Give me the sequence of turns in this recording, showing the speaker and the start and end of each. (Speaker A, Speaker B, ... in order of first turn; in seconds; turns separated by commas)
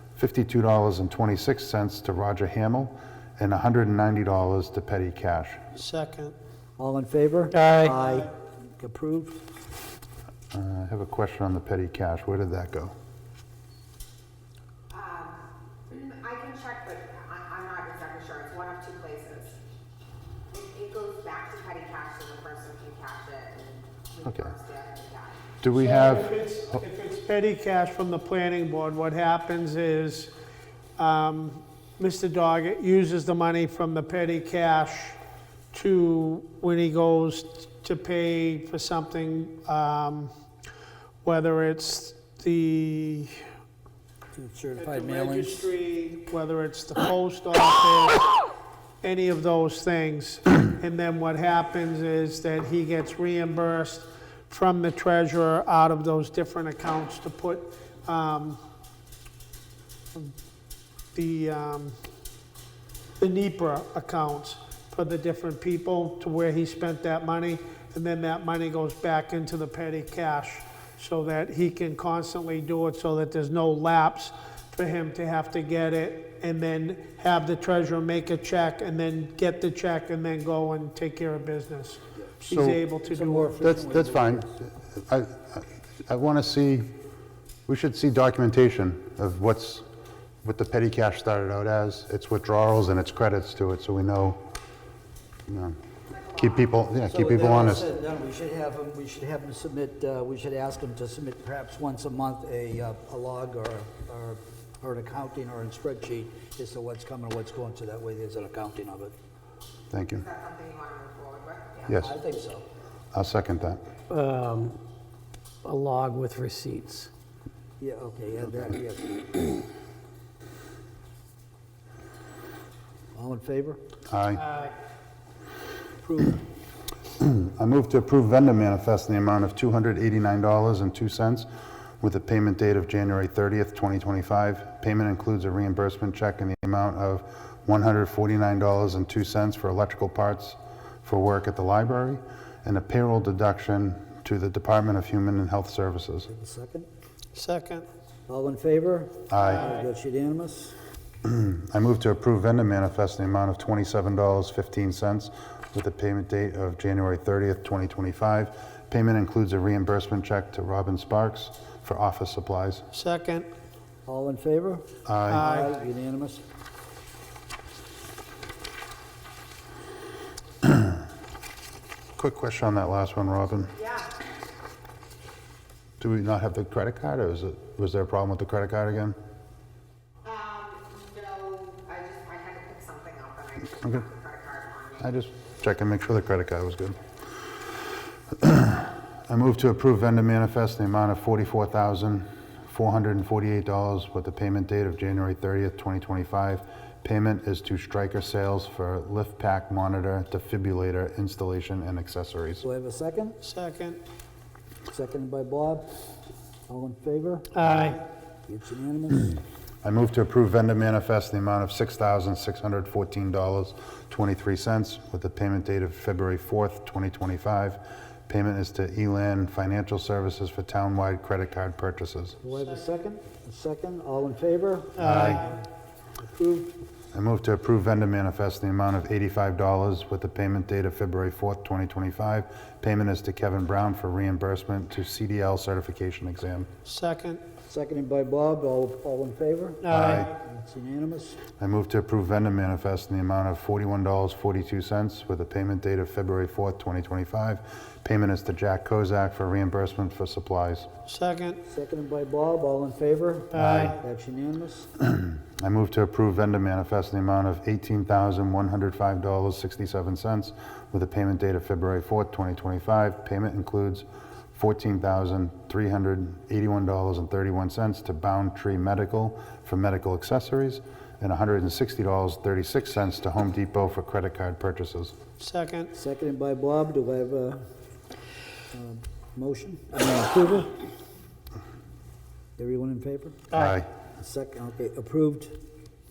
Speaker A: 0.1-5.6, Speaker B: 5.8-6.3, Speaker C: 6.8-9.4, Speaker D: 7.5-7.9, Speaker A: 10.5-12.9, Speaker E: 14.9-19.6, Speaker E: 20.5-25.4, Speaker A: 24.2-24.5, Speaker A: 25.6-26.8, Speaker B: 25.8-30.3, Speaker B: 31.0-35.2, Speaker B: 35.7-40.3, Speaker B: 41.2-43.4, Speaker C: 44.3-45.7, Speaker B: 44.8-48.4, Speaker B: 49.0-58.6, Speaker B: 61.1-62.0, Speaker B: 63.2-83.6, Speaker A: 82.5-82.8, Speaker C: 83.1-84.5, Speaker A: 83.6-86.9, Speaker A: 87.7-89.8, Speaker A: 90.4-94.4, Speaker A: 95.5-95.8, Speaker E: 96.1-96.7, Speaker A: 96.3-97.9, Speaker C: 97.1-109.1, Speaker A: 109.9-110.2, Speaker E: 110.1-112.1, Speaker A: 111.9-112.1, Speaker C: 112.0-112.7, Speaker A: 113.1-113.8, Speaker D: 114.1-114.8, Speaker D: 115.6-117.1, Speaker C: 117.8-119.5, Speaker C: 123.1-123.8, Speaker A: 124.1-124.4, Speaker B: 124.4-124.7, Speaker C: 126.0-126.4, Speaker A: 127.2-131.5, Speaker A: 132.0-146.3, Speaker C: 146.3-146.9, Speaker B: 147.3-147.8, Speaker C: 148.3-150.8, Speaker A: 149.3-149.7, Speaker B: 149.4-149.9, Speaker A: 151.2-162.8, Speaker B: 162.9-163.5, Speaker C: 164.1-166.4, Speaker A: 165.0-165.5, Speaker B: 165.3-165.8, Speaker A: 172.2-173.7, Speaker E: 173.7-174.2, Speaker A: 176.0-179.2, Speaker E: 180.2-185.9, Speaker A: 185.0-187.0, Speaker A: 188.4-202.6, Speaker C: 202.6-203.4, Speaker B: 203.4-204.0, Speaker C: 204.9-205.9, Speaker C: 206.7-209.4, Speaker B: 207.5-208.0, Speaker A: 209.8-222.4, Speaker C: 222.4-225.6, Speaker B: 225.0-225.6, Speaker A: 225.0-225.5, Speaker C: 226.2-226.8, Speaker A: 227.1-236.7, Speaker B: 236.8-237.4, Speaker C: 237.7-241.4, Speaker B: 239.8-240.3, Speaker A: 239.9-240.3, Speaker A: 241.6-250.9, Speaker B: 251.1-251.6, Speaker C: 251.6-254.9, Speaker B: 253.5-254.0, Speaker A: 255.1-275.1, Speaker B: 275.4-275.9, Speaker C: 275.9-277.6, Speaker C: 278.7-280.8, Speaker C: 282.6-283.5, Speaker A: 283.5-283.9, Speaker C: 284.2-285.6